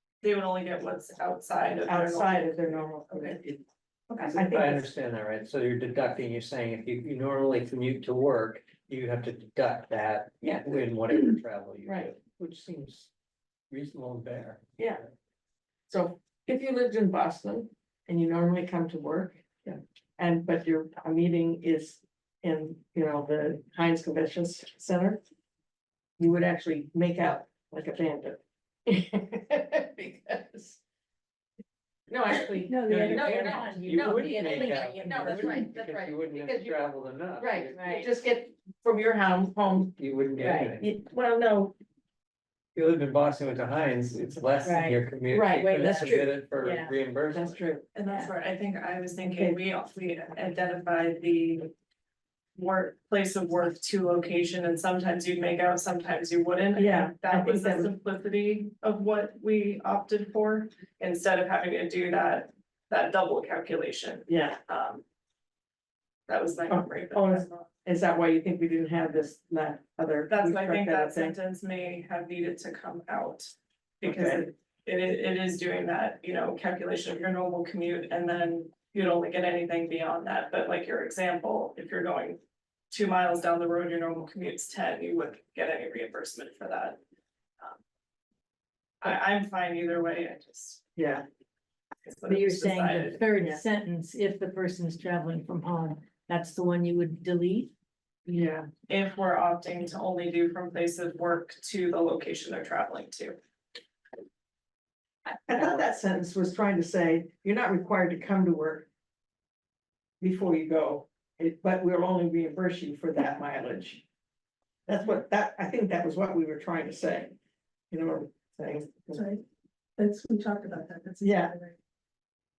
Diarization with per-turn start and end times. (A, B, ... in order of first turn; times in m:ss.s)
0:00.2-0:03.4 A
0:01.8-0:03.6 B
0:04.1-0:04.4 A
0:04.3-0:13.1 C
0:04.3-0:04.9 B
0:10.4-0:10.8 B
0:11.9-0:12.1 B
0:13.7-0:14.6 C
0:15.9-0:25.2 B
0:26.2-0:30.8 B
0:32.1-0:40.0 B
0:32.7-0:35.7 D
0:33.1-0:38.0 C
0:37.7-0:38.0 D
0:40.0-0:40.9 C
0:40.4-0:40.7 D
0:40.6-0:41.8 B
0:42.8-0:47.6 C
0:44.6-0:46.9 D
0:45.3-0:46.3 B
0:47.3-0:47.9 B
0:48.0-0:51.7 A
0:49.2-0:49.6 B
0:52.6-1:05.0 A
0:56.8-0:57.9 B
1:04.3-1:04.6 B
1:06.3-1:07.7 A
1:06.7-1:11.4 B
1:10.3-1:22.4 A
1:14.0-1:14.5 B
1:22.9-1:27.0 A
1:29.0-1:30.8 A
1:31.0-1:31.2 B
1:32.1-1:33.2 A
1:32.3-1:37.7 D
1:33.4-1:33.6 B
1:38.3-1:38.7 B
1:38.9-1:43.4 A
1:45.3-1:48.9 B
1:50.2-1:54.0 B
1:54.9-1:57.4 B
1:57.9-1:59.3 B
1:59.1-1:59.4 E
2:00.0-2:01.8 E
2:01.2-2:01.6 B